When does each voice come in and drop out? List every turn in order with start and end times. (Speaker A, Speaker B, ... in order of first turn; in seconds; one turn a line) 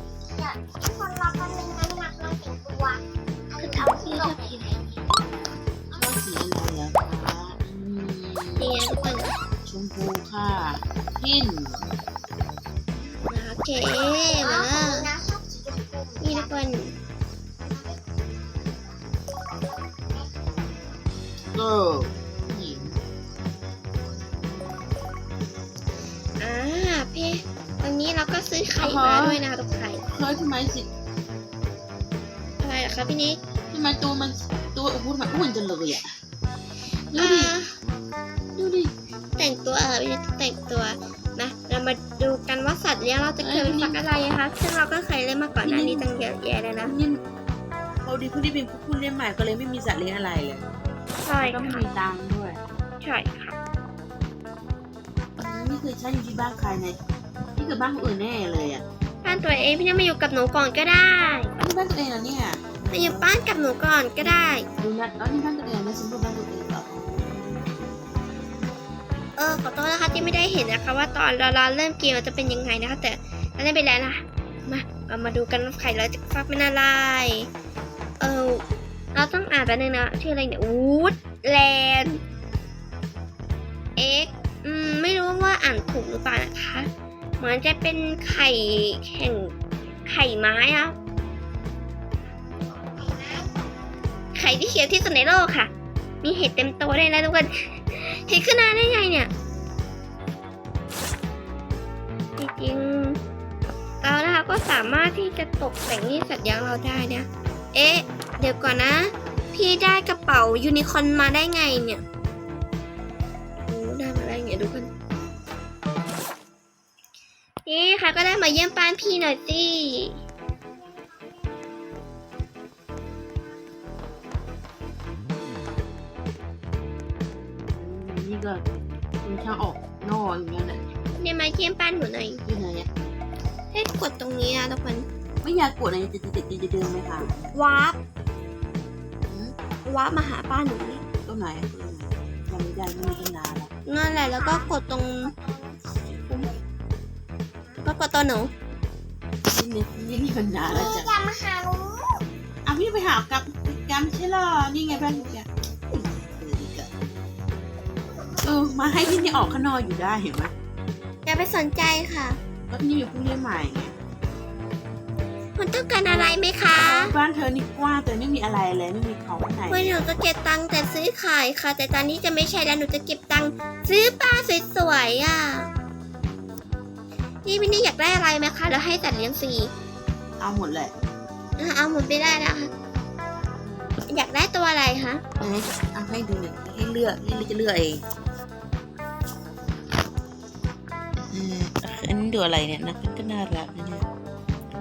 Speaker A: 0.3-5.1
Speaker B: 3.6-4.6
Speaker C: 5.9-8.7
Speaker B: 8.6-9.3
Speaker C: 9.7-11.9
Speaker B: 13.3-15.1
Speaker A: 13.8-16.8
Speaker B: 16.2-16.9
Speaker A: 17.6-18.1
Speaker A: 18.6-18.9
Speaker A: 19.9-21.0
Speaker C: 21.5-23.0
Speaker B: 26.4-30.0
Speaker C: 28.8-29.4
Speaker C: 30.1-30.9
Speaker B: 32.6-33.4
Speaker C: 33.7-36.1
Speaker C: 37.1-37.5
Speaker B: 37.1-37.7
Speaker C: 38.6-38.9
Speaker B: 39.4-46.9
Speaker C: 43.4-44.0
Speaker C: 45.6-46.1
Speaker C: 46.8-47.2
Speaker C: 48.0-50.6
Speaker B: 51.2-51.8
Speaker C: 51.4-52.6
Speaker B: 53.0-53.5
Speaker C: 55.4-57.0
Speaker C: 57.5-58.8
Speaker B: 59.2-61.5
Speaker C: 61.6-63.3
Speaker B: 62.9-64.7
Speaker C: 64.2-68.1
Speaker B: 69.4-77.5
Speaker B: 78.2-78.6
Speaker B: 79.1-82.2
Speaker B: 84.0-86.9
Speaker B: 87.4-89.5
Speaker B: 90.0-90.9
Speaker A: 92.6-93.6
Speaker B: 94.3-95.7
Speaker B: 96.2-99.3
Speaker B: 102.4-103.2
Speaker B: 104.0-112.0
Speaker B: 113.7-114.9
Speaker B: 117.7-120.2
Speaker C: 127.7-128.6
Speaker C: 129.2-130.8
Speaker B: 131.1-132.4
Speaker C: 132.4-132.9
Speaker B: 133.7-135.1
Speaker C: 135.4-137.5
Speaker B: 137.5-138.0
Speaker C: 139.2-139.6
Speaker B: 139.9-141.0
Speaker C: 141.2-143.7
Speaker B: 143.9-145.3
Speaker A: 144.2-146.6
Speaker B: 147.8-148.5
Speaker C: 149.5-151.1
Speaker A: 150.7-152.2
Speaker C: 152.6-156.9
Speaker A: 158.1-159.3
Speaker C: 158.4-160.5
Speaker B: 161.2-162.4
Speaker C: 162.7-163.9
Speaker B: 165.6-167.1
Speaker C: 166.1-169.9
Speaker B: 169.7-175.7
Speaker B: 177.4-179.7
Speaker C: 180.4-180.9
Speaker B: 181.6-182.7
Speaker C: 183.6-184.0
Speaker B: 184.1-185.2
Speaker C: 185.4-188.0
Speaker C: 191.3-194.1